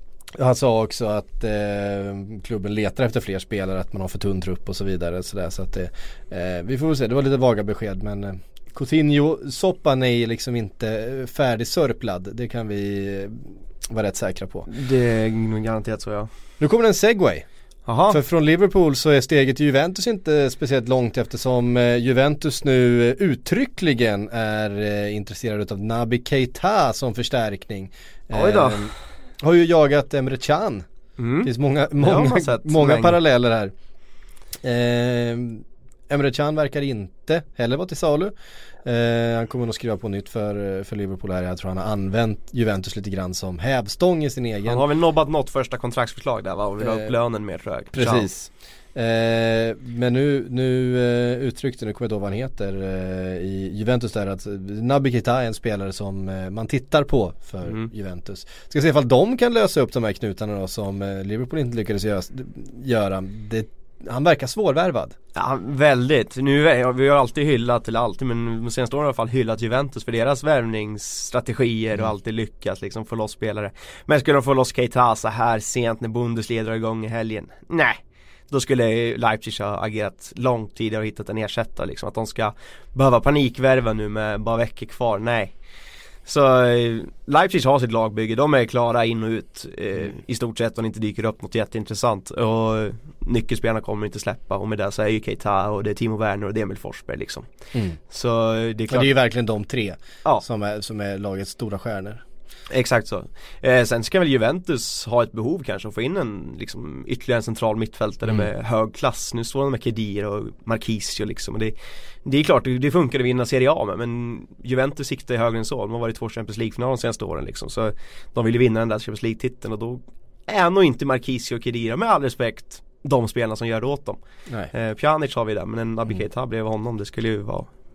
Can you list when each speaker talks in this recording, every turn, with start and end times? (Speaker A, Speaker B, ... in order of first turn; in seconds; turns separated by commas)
Speaker A: 0.3-14.7, Speaker B: 14.7-16.3, Speaker A: 16.6-17.4, Speaker B: 17.9-18.2, Speaker A: 18.1-30.9, Speaker B: 28.3-28.9, Speaker B: 31.2-33.2, Speaker A: 31.4-33.7, Speaker A: 34.6-44.8, Speaker B: 44.6-48.3, Speaker A: 46.8-47.1, Speaker A: 47.9-65.2, Speaker B: 65.3-85.5, Speaker B: 86.2-97.5, Speaker B: 98.1-99.1, Speaker A: 98.9-102.2, Speaker B: 102.7-111.7, Speaker B: 112.2-124.2, Speaker B: 124.7-127.7